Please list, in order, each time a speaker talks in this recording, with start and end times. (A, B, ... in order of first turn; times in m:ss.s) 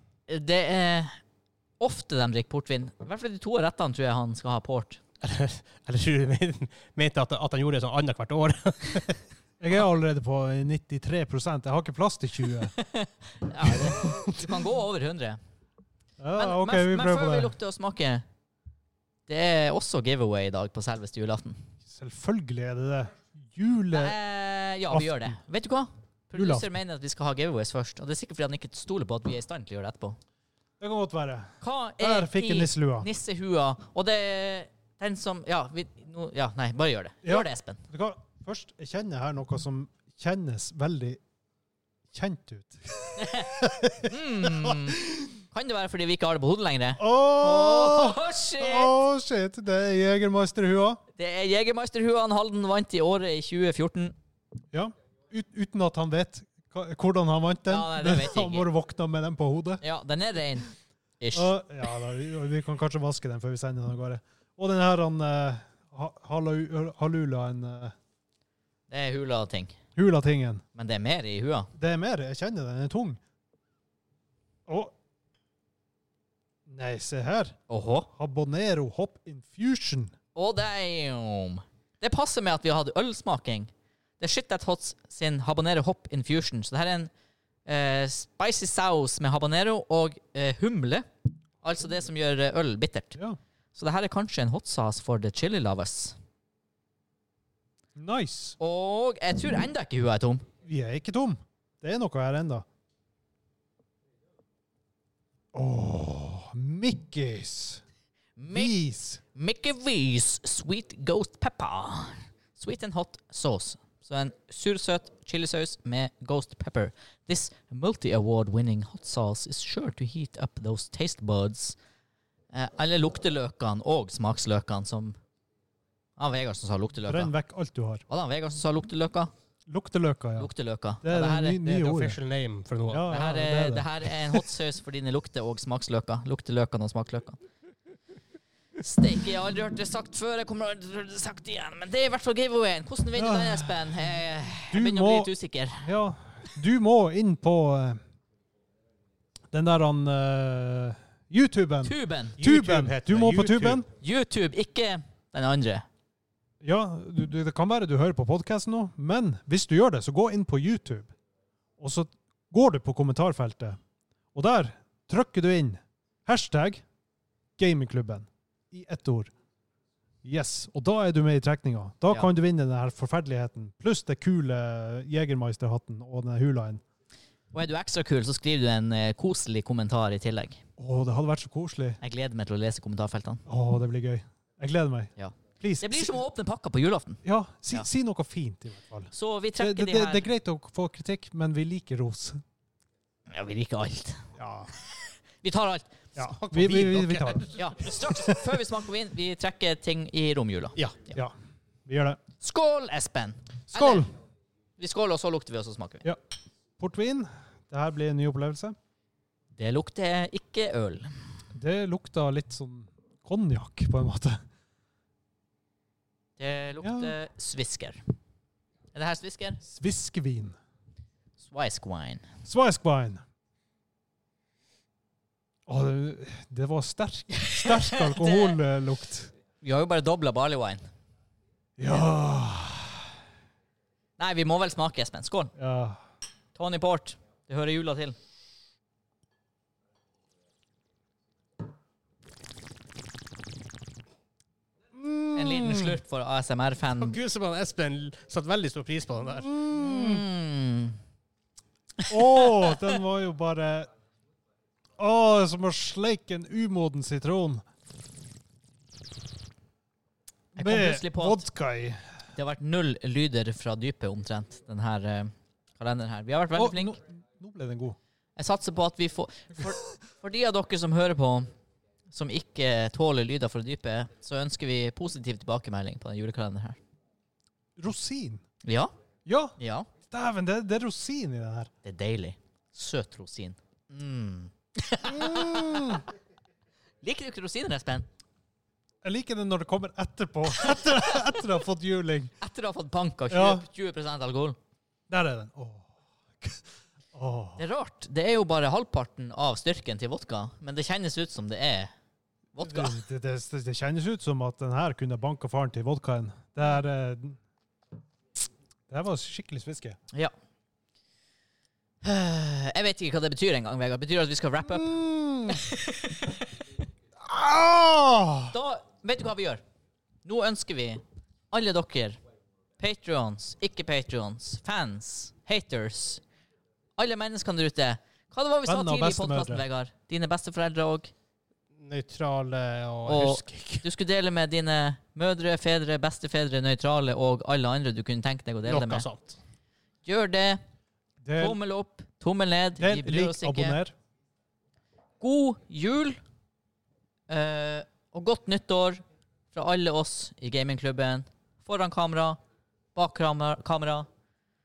0:00.3-0:01.1 A
0:01.8-0:05.0 A
0:05.2-0:09.2 B
0:09.6-0:12.7 C
0:12.8-0:15.4 A
0:13.6-0:14.5 C
0:16.2-0:17.5 C
0:16.3-0:18.2 A
0:19.3-0:21.6 A
0:21.9-0:24.1 C
0:23.9-0:30.2 A
0:24.9-0:25.4 C
0:26.4-0:26.7 C
0:30.8-0:33.1 C
0:31.6-0:37.8 A
0:37.2-0:41.2 C
0:42.1-0:45.3 C
0:43.2-0:49.0 A
0:47.0-0:51.0 C
0:51.1-0:54.1 A
0:54.7-0:59.8 C
0:57.7-0:58.7 A
0:59.8-1:01.5 A
1:01.3-1:07.9 C
1:08.9-1:09.8 A
1:10.0-1:10.6 C
1:10.7-1:11.7 A
1:11.8-1:13.2 C
1:14.7-1:14.9 C
1:16.7-1:17.6 C
1:17.7-1:18.1 A
1:18.2-1:20.1 C
1:20.3-1:27.1 A
1:27.6-1:31.0 A
1:31.6-1:33.2 A
1:33.7-1:36.2 A
1:38.0-1:38.6 C
1:38.6-1:40.4 A
1:40.6-1:42.6 C
1:45.5-1:47.8 C
1:48.4-1:48.8 A
1:48.5-1:49.2 C
1:49.3-2:01.8 A
2:02.5-2:05.2 A
2:06.2-2:07.3 A
2:07.0-2:08.0 C
2:08.1-2:09.3 A
2:09.7-2:10.5 C
2:10.4-2:11.6 A
2:11.0-2:12.2 C
2:11.6-2:13.1 B
2:12.9-2:14.4 C
2:13.1-2:17.4 A
2:18.8-2:25.9 A
2:23.2-2:24.0 C
2:24.7-2:25.3 C
2:25.8-2:28.0 C
2:29.5-2:33.9 C
2:31.8-2:32.4 A
2:32.4-2:33.8 B
2:33.9-2:35.8 A
2:36.6-2:41.1 C
2:41.8-2:43.8 C
2:44.3-2:46.8 C
2:47.6-2:49.3 C
2:50.2-2:56.8 C
2:57.5-3:00.6 A
3:00.8-3:02.0 C
3:02.0-3:03.4 A
3:03.5-3:06.2 C
3:05.2-3:07.2 A
3:07.2-3:12.4 C
3:09.1-3:10.3 A
3:13.3-3:14.2 A
3:14.4-3:14.7 C
3:14.8-3:16.3 A
3:16.2-3:17.4 C
3:16.3-3:17.5 B
3:17.4-3:21.1 A
3:20.8-3:21.1 B
3:21.8-3:22.2 C
3:22.4-3:24.0 A
3:23.7-3:24.1 C
3:24.8-3:26.0 A
3:26.8-3:28.7 C
3:29.6-3:31.1 A
3:31.5-3:34.4 C
3:36.4-3:38.0 A
3:36.8-3:37.1 C
3:38.9-3:39.6 A
3:39.6-3:40.6 C
3:41.4-3:42.2 A
3:42.4-3:43.2 C
3:45.7-3:49.3 C
3:47.4-3:48.6 A
3:49.6-3:50.8 A
3:51.8-3:53.1 C
3:54.2-3:55.5 A
3:55.6-3:56.0 C
3:56.5-3:58.2 A
4:04.9-4:05.9 C
4:05.3-4:07.2 A
4:07.0-4:09.6 B
4:09.5-4:10.2 C
4:09.6-4:11.0 A
4:12.1-4:13.0 A
4:12.1-4:13.9 C
4:15.0-4:17.6 C
4:20.6-4:21.4 A
4:20.6-4:22.0 C
4:22.3-4:27.0 A
4:26.5-4:28.0 C
4:28.4-4:31.4 A
4:32.1-4:36.8 A
4:37.8-4:38.4 C
4:38.6-4:38.9 A
4:39.2-4:39.5 C
4:39.6-4:39.9 A
4:40.1-4:41.7 C
4:41.8-4:46.0 A
4:45.1-4:46.0 C
4:47.0-4:48.0 A
4:49.0-4:52.3 C
4:50.6-4:51.4 A
4:52.4-4:54.6 A
4:53.3-4:53.6 C
4:55.1-4:55.9 C
4:57.1-4:57.6 C
4:57.6-5:01.9 A
5:02.5-5:03.0 A
5:02.7-5:07.4 C
5:08.9-5:10.0 C
5:12.0-5:16.4 A
5:14.8-5:15.6 C
5:17.2-5:18.5 C
5:18.5-5:19.6 A
5:20.2-5:22.2 A
5:22.8-5:26.2 A
5:27.0-5:31.1 A
5:28.6-5:29.6 C
5:31.8-5:33.8 B
5:33.1-5:39.0 A
5:38.6-5:39.4 B
5:40.0-5:40.6 A
5:41.2-5:41.6 C
5:41.4-5:43.8 A
5:42.8-5:43.9 C
5:45.2-5:46.2 A
5:47.3-5:49.0 A
5:49.5-5:52.4 A
5:52.9-5:54.1 A